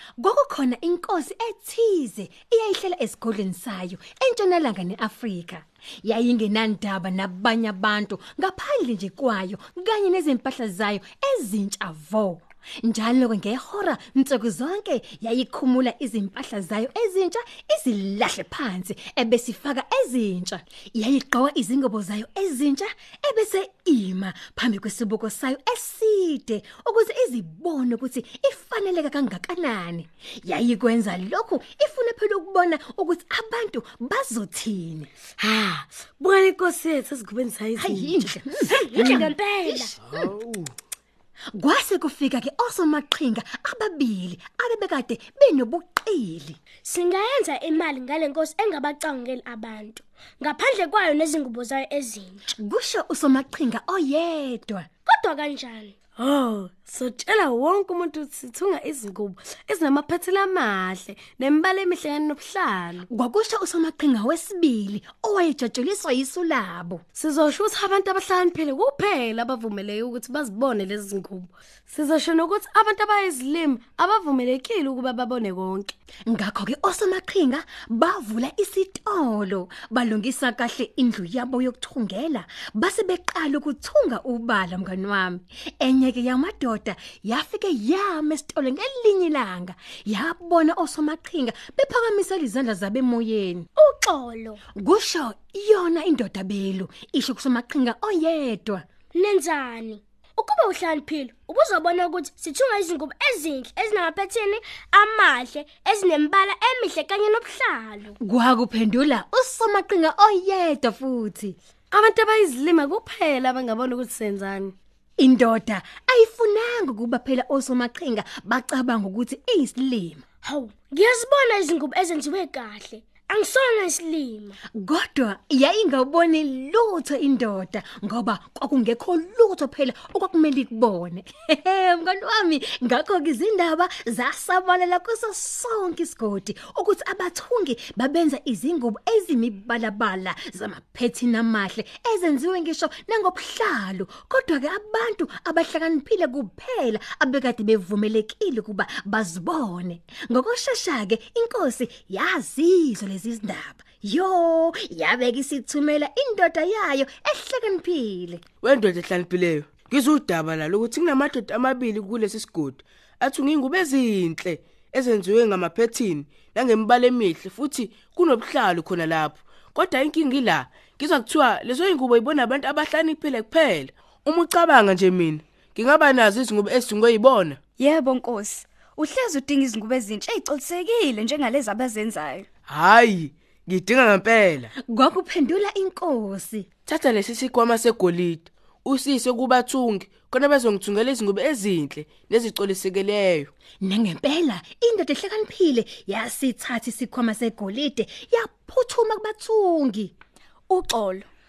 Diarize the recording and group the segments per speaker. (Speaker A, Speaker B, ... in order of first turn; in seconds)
Speaker A: 0.2-35.1, 37.8-39.3, 41.5-46.6, 52.6-54.9, 63.1-67.0, 76.3-93.7, 94.8-98.8, 108.2-111.5, 115.2-120.2, 124.7-158.4, 184.9-186.7, 193.8-200.1
Speaker B: 35.4-38.3, 56.1-63.1, 67.1-75.9, 111.9-114.7
Speaker C: 38.7-40.0, 46.8-52.4, 55.0-56.0, 93.8-94.6, 99.1-108.2, 120.4-124.6
Speaker D: 40.0-40.7, 158.6-177.6, 182.7-184.7, 186.9-193.5
Speaker E: 177.8-182.4, 200.8-201.2